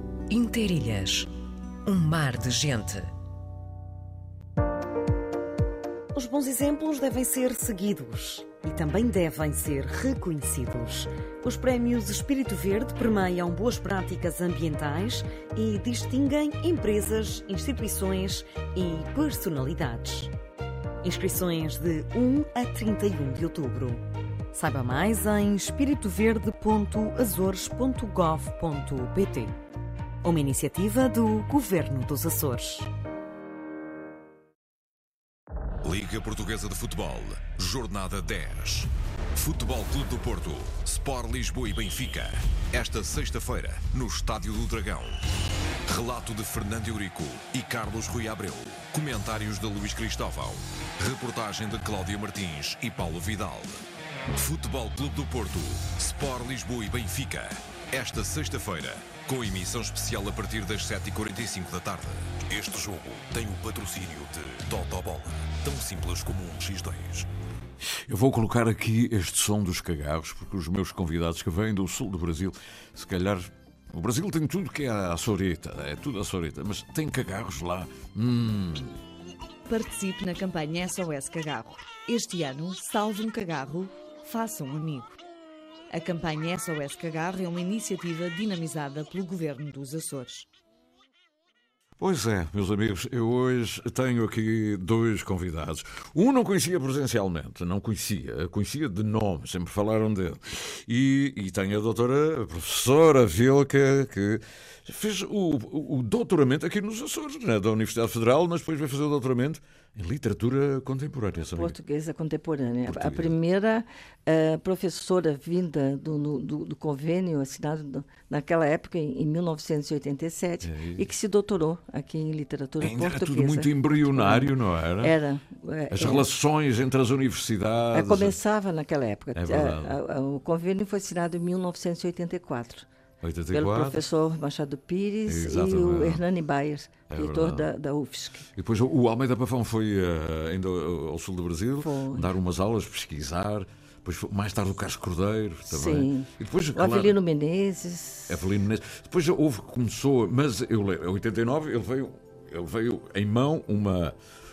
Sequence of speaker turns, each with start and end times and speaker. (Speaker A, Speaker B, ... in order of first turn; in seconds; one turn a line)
Speaker A: 0.3-1.3
Speaker A: 1.9-3.1
Speaker B: 6.1-20.3
Speaker B: 21.0-29.5
Speaker B: 30.2-32.9
Speaker C: 35.8-45.2
Speaker C: 45.9-67.3
Speaker D: 67.8-78.9
Speaker E: 79.7-85.2
Speaker E: 85.9-90.5
Speaker D: 92.0-111.8
Speaker F: 111.5-124.5
Speaker D: 112.8-113.3
Speaker D: 120.6-121.1
Speaker D: 122.8-125.1
Speaker F: 125.0-126.2
Speaker D: 125.9-128.4
Speaker F: 127.9-132.8
Speaker D: 129.3-130.0
Speaker D: 133.2-134.0
Speaker F: 133.5-138.5
Speaker D: 135.2-136.2
Speaker D: 137.1-137.7
Speaker D: 138.5-147.2
Speaker F: 141.8-142.3
Speaker F: 145.7-148.4
Speaker D: 148.3-154.2